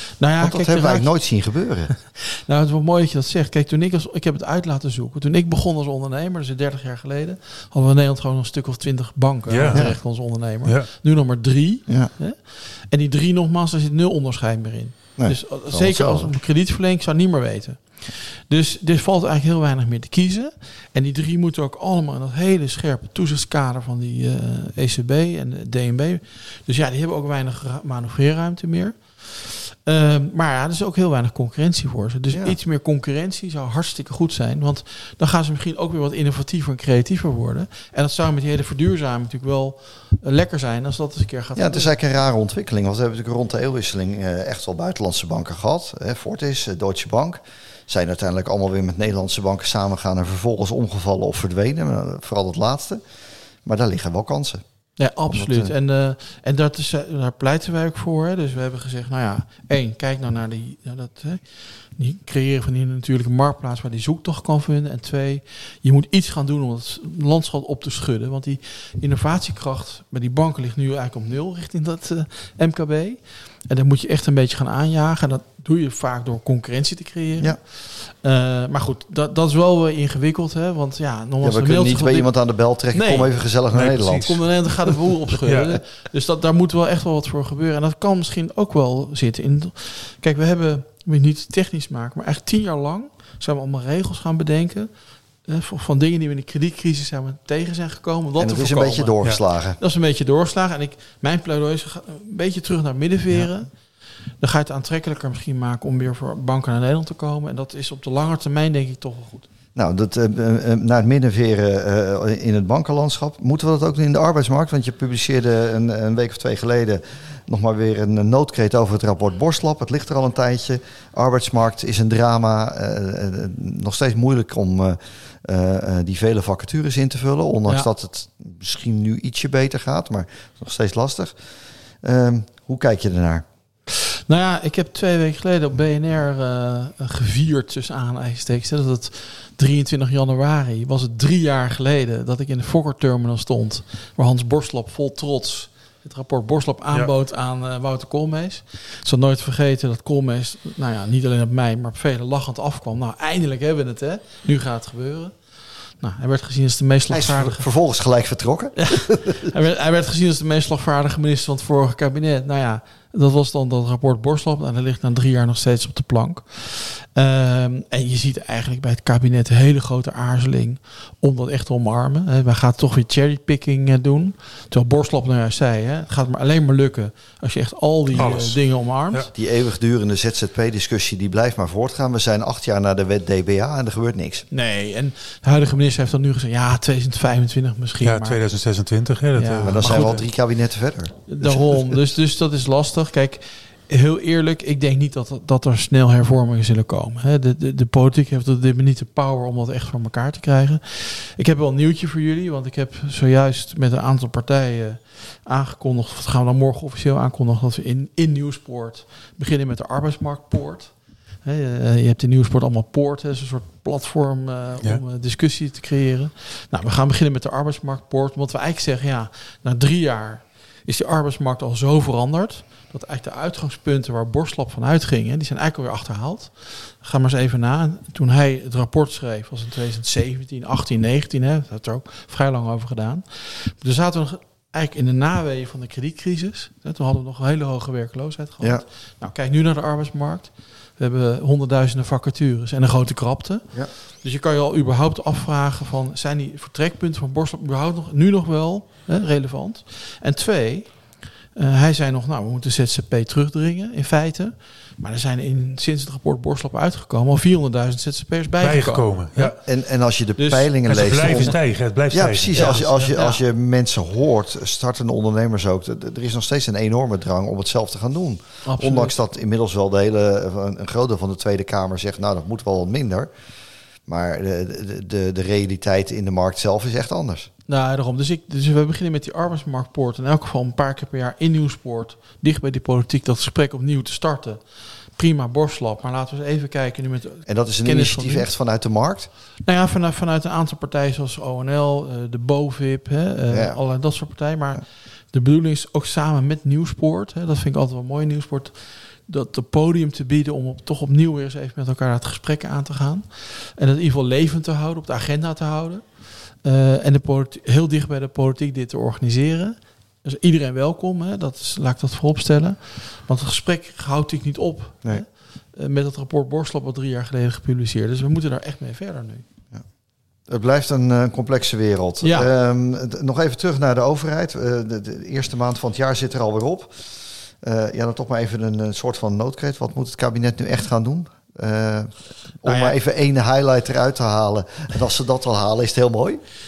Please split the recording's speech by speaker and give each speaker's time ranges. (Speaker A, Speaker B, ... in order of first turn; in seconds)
Speaker A: 0.2-1.4, 1.9-41.9, 55.0-82.4, 82.9-83.3, 84.2-94.9, 95.4-99.2, 99.8-103.7, 104.4-109.5, 133.9-155.3, 156.0-157.7, 158.8-179.3, 184.5-188.4, 189.3-190.2, 191.3-250.9, 251.6-259.6, 260.4-261.6, 262.5-263.4, 268.6-269.2, 277.7-288.5, 289.6-319.4, 322.2-322.5, 332.6-333.0
Speaker B: 0.4-1.9, 15.2-16.3, 41.6-53.0, 53.6-54.6, 55.3-55.7, 81.4-84.3, 98.4-99.8, 109.8-131.4, 132.0-133.4, 157.1-159.4, 178.2-178.4, 179.3-184.5, 189.6-191.6, 259.4-273.3, 274.1-277.5, 287.5-289.3, 293.5-293.8, 320.5-327.0, 327.6-336.4
Speaker C: 9.5-10.9, 83.7-84.4, 85.4-85.8, 178.2-178.6, 188.0-190.2, 258.6-259.6, 260.9-263.1